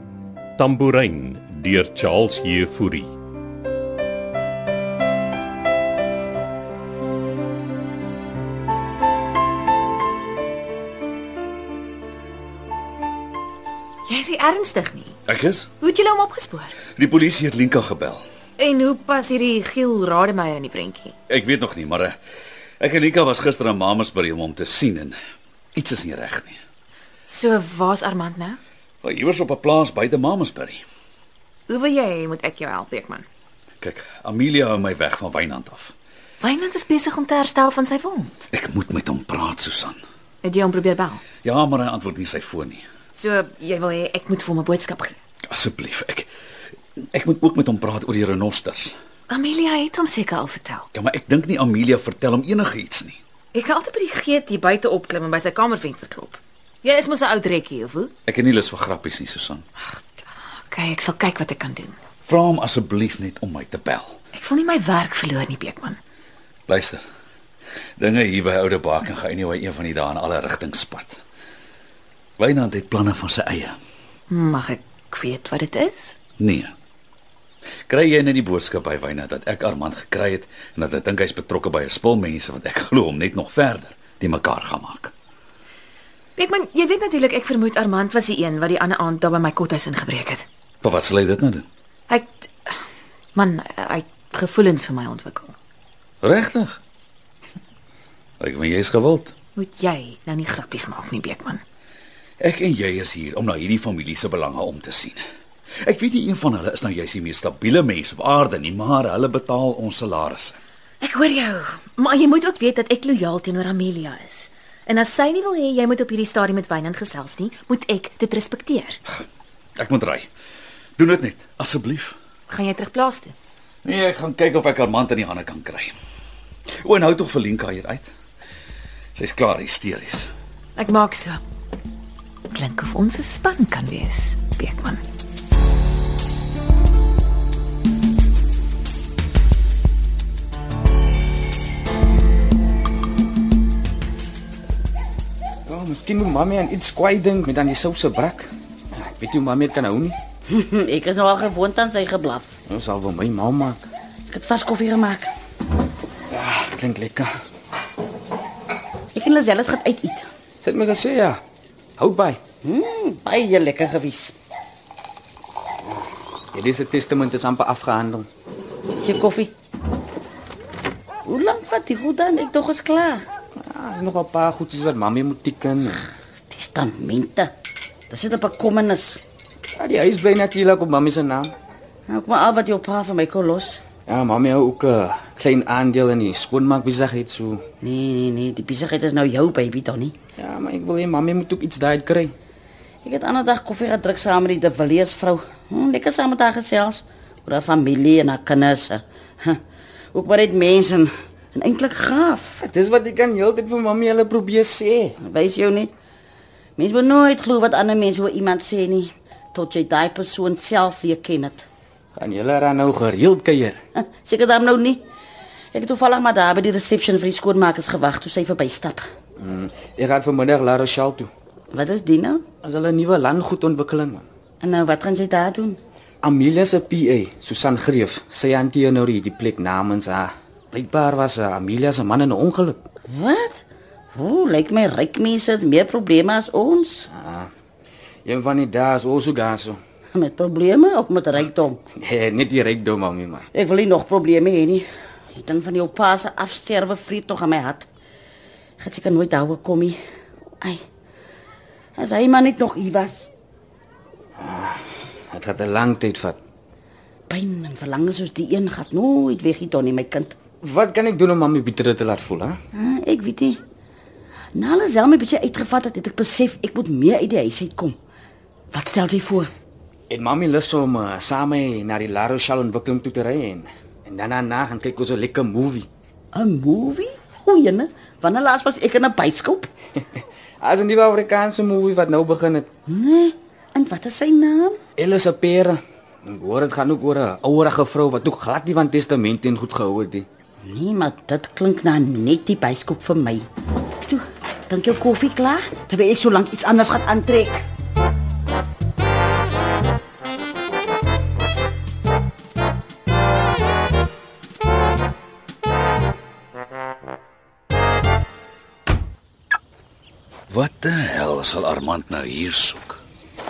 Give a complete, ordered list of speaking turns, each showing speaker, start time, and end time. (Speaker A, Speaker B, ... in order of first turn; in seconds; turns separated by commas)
Speaker A: 0.6-3.1, Speaker B: 14.1-15.2, Speaker C: 15.3-15.7, Speaker B: 15.8-16.8, Speaker C: 17.0-18.2, Speaker B: 18.6-21.1, Speaker C: 21.3-22.2, Speaker C: 22.8-25.1, Speaker C: 25.7-26.6, Speaker B: 27.3-28.6, Speaker C: 29.0-30.8, Speaker B: 31.7-33.2, Speaker C: 33.8-35.9, Speaker B: 36.4-38.5, Speaker C: 38.5-40.0, Speaker B: 40.4-41.2, Speaker C: 41.4-42.8, Speaker B: 43.1-45.1, Speaker C: 45.5-46.3, Speaker C: 47.1-48.9, Speaker B: 49.3-50.9, Speaker C: 50.9-53.2, Speaker B: 53.5-58.1, Speaker C: 58.3-59.6, Speaker B: 60.7-61.9, Speaker C: 62.2-64.2, Speaker B: 64.3-66.0, Speaker C: 66.7-67.0, Speaker C: 68.0-71.2, Speaker C: 72.4-73.8, Speaker B: 74.3-76.2, Speaker C: 76.4-76.7, Speaker C: 77.9-85.1, Speaker B: 86.4-90.4, Speaker C: 90.8-91.6, Speaker B: 92.1-92.7, Speaker B: 93.3-95.5, Speaker C: 96.2-96.8, Speaker C: 98.4-99.3, Speaker B: 99.5-101.6, Speaker C: 102.4-105.2, Speaker C: 105.8-110.6, Speaker B: 111.0-119.0, Speaker C: 119.8-120.3, Speaker C: 121.0-122.1, Speaker B: 122.5-123.3, Speaker C: 123.8-125.9, Speaker C: 126.8-128.1, Speaker C: 129.2-130.3, Speaker B: 130.8-131.4, Speaker B: 132.5-135.0, Speaker D: 145.7-150.2, Speaker E: 150.5-152.5, Speaker D: 152.7-153.8, Speaker E: 154.3-155.3, Speaker D: 156.3-157.3, Speaker E: 159.1-160.3, Speaker D: 160.6-161.4, Speaker D: 162.0-162.4, Speaker E: 162.6-164.3, Speaker D: 166.5-168.3, Speaker E: 169.0-169.5, Speaker E: 171.2-173.2, Speaker D: 173.6-176.0, Speaker E: 176.5-177.5, Speaker E: 178.1-179.2, Speaker D: 179.8-181.5, Speaker E: 182.1-183.8, Speaker D: 184.1-187.6, Speaker E: 187.8-190.2, Speaker D: 190.3-192.3, Speaker E: 193.0-199.6, Speaker E: 200.1-202.6, Speaker D: 202.6-205.1, Speaker E: 205.2-205.9, Speaker E: 206.8-211.7, Speaker D: 212.2-213.8, Speaker E: 214.0-215.0, Speaker E: 215.7-219.0, Speaker D: 219.4-221.3, Speaker E: 221.7-222.4, Speaker D: 222.6-224.3, Speaker E: 224.6-225.8, Speaker D: 226.2-232.8, Speaker E: 233.1-233.6, Speaker E: 234.1-237.1, Speaker D: 237.1-237.5, Speaker D: 238.2-239.8, Speaker E: 240.1-241.8, Speaker D: 241.9-243.4, Speaker E: 243.5-247.9, Speaker E: 248.8-250.0, Speaker E: 252.0-253.3, Speaker D: 254.4-256.4, Speaker E: 257.3-260.3, Speaker D: 260.6-262.6, Speaker E: 262.8-263.6, Speaker E: 264.5-268.0, Speaker E: 268.7-269.5, Speaker D: 270.1-275.9, Speaker E: 276.3-279.7, Speaker D: 280.6-282.7, Speaker E: 282.9-284.8, Speaker D: 285.0-290.3, Speaker E: 290.6-293.4, Speaker E: 294.1-297.6, Speaker C: 310.5-313.0